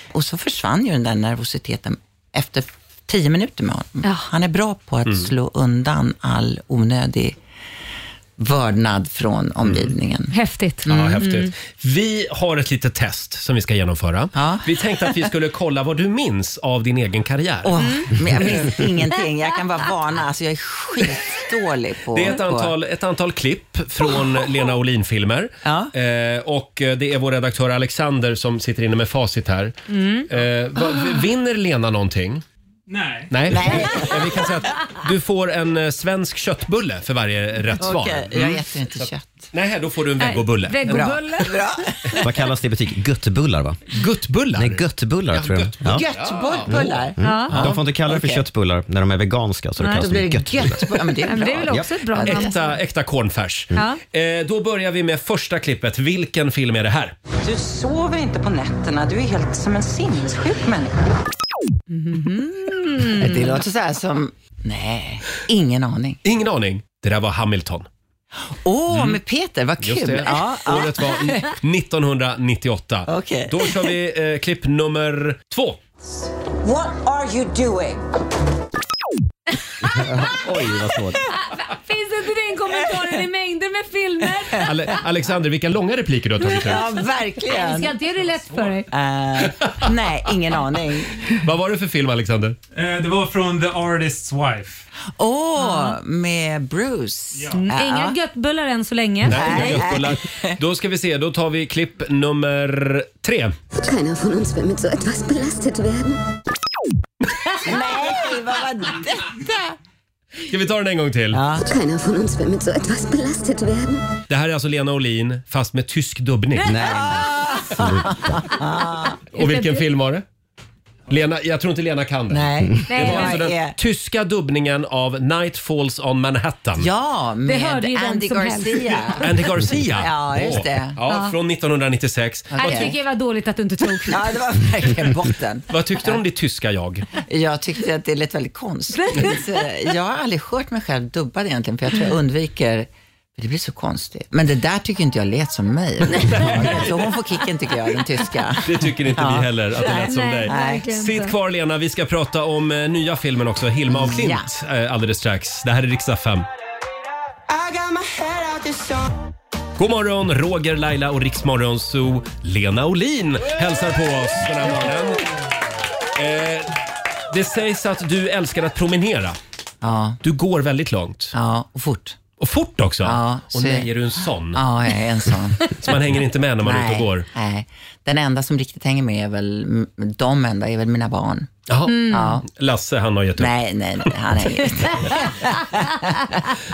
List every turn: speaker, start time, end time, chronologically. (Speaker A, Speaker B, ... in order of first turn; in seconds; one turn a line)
Speaker A: 0.1-7.4
Speaker A: 8.4-11.3
Speaker B: 9.6-9.9
Speaker C: 10.3-11.5
Speaker B: 10.9-17.7
Speaker A: 14.3-15.3
Speaker A: 17.6-22.8
Speaker C: 17.8-18.1
Speaker B: 22.1-29.8
Speaker A: 25.6-25.9
Speaker C: 29.9-30.3
Speaker B: 30.3-32.4
Speaker D: 32.9-33.4
Speaker B: 33.3-41.0
Speaker A: 33.5-34.4
Speaker A: 37.8-39.5
Speaker C: 40.2-41.6
Speaker A: 40.9-42.3
Speaker E: 42.2-43.8
Speaker B: 43.9-46.9
Speaker E: 44.5-46.0
Speaker A: 45.8-48.5
Speaker E: 46.7-51.0
Speaker C: 47.2-47.5
Speaker C: 49.8-50.1
Speaker A: 49.9-52.6
Speaker C: 51.2-52.5
Speaker B: 52.2-57.2
Speaker C: 53.7-54.0
Speaker A: 57.4-61.0
Speaker C: 61.9-63.6
Speaker A: 63.1-66.2
Speaker B: 66.2-67.9
Speaker A: 68.5-71.5
Speaker B: 68.9-69.2
Speaker B: 69.8-75.8
Speaker A: 73.1-74.0
Speaker A: 76.6-78.0
Speaker E: 79.9-81.2
Speaker C: 81.2-84.7
Speaker A: 82.8-83.2
Speaker A: 84.2-85.0
Speaker B: 84.6-86.8
Speaker A: 86.4-88.0
Speaker C: 87.4-88.9
Speaker D: 88.2-88.8
Speaker A: 88.9-91.4
Speaker B: 89.5-89.9
Speaker B: 91.2-92.6
Speaker D: 92.7-94.8
Speaker A: 95.2-98.2
Speaker C: 95.6-96.0
Speaker D: 97.3-97.6
Speaker C: 97.5-99.9
Speaker B: 99.3-103.5
Speaker A: 99.3-100.6
Speaker F: 103.8-106.2
Speaker A: 107.6-109.7
Speaker B: 110.5-111.4
Speaker A: 111.3-111.7
Speaker F: 111.6-114.1
Speaker B: 114.3-116.9
Speaker A: 116.6-119.2
Speaker C: 119.3-119.8
Speaker B: 119.3-120.2
Speaker B: 121.1-126.9
Speaker A: 122.3-123.8
Speaker C: 122.9-123.4
Speaker A: 126.8-131.0
Speaker C: 127.5-129.2
Speaker B: 129.2-132.9
Speaker C: 131.1-131.3
Speaker A: 132.5-133.0
Speaker C: 132.6-134.2
Speaker A: 134.1-136.2
Speaker B: 135.7-137.1
Speaker A: 137.2-150.9
Speaker C: 139.0-139.3
Speaker B: 146.2-147.1
Speaker B: 148.7-156.5
Speaker C: 149.8-151.3
Speaker A: 153.9-154.5
Speaker A: 157.5-159.1
Speaker B: 159.8-165.2
Speaker B: 166.2-166.7
Speaker B: 167.3-169.4
Speaker A: 169.8-170.2
Speaker B: 170.2-171.3
Speaker A: 171.3-172.2
Speaker B: 172.4-174.6
Speaker A: 173.0-173.9
Speaker A: 174.5-175.9
Speaker B: 175.7-177.3
Speaker A: 176.6-181.5
Speaker B: 181.7-184.1
Speaker C: 181.9-182.3
Speaker A: 182.1-182.5
Speaker A: 183.4-186.6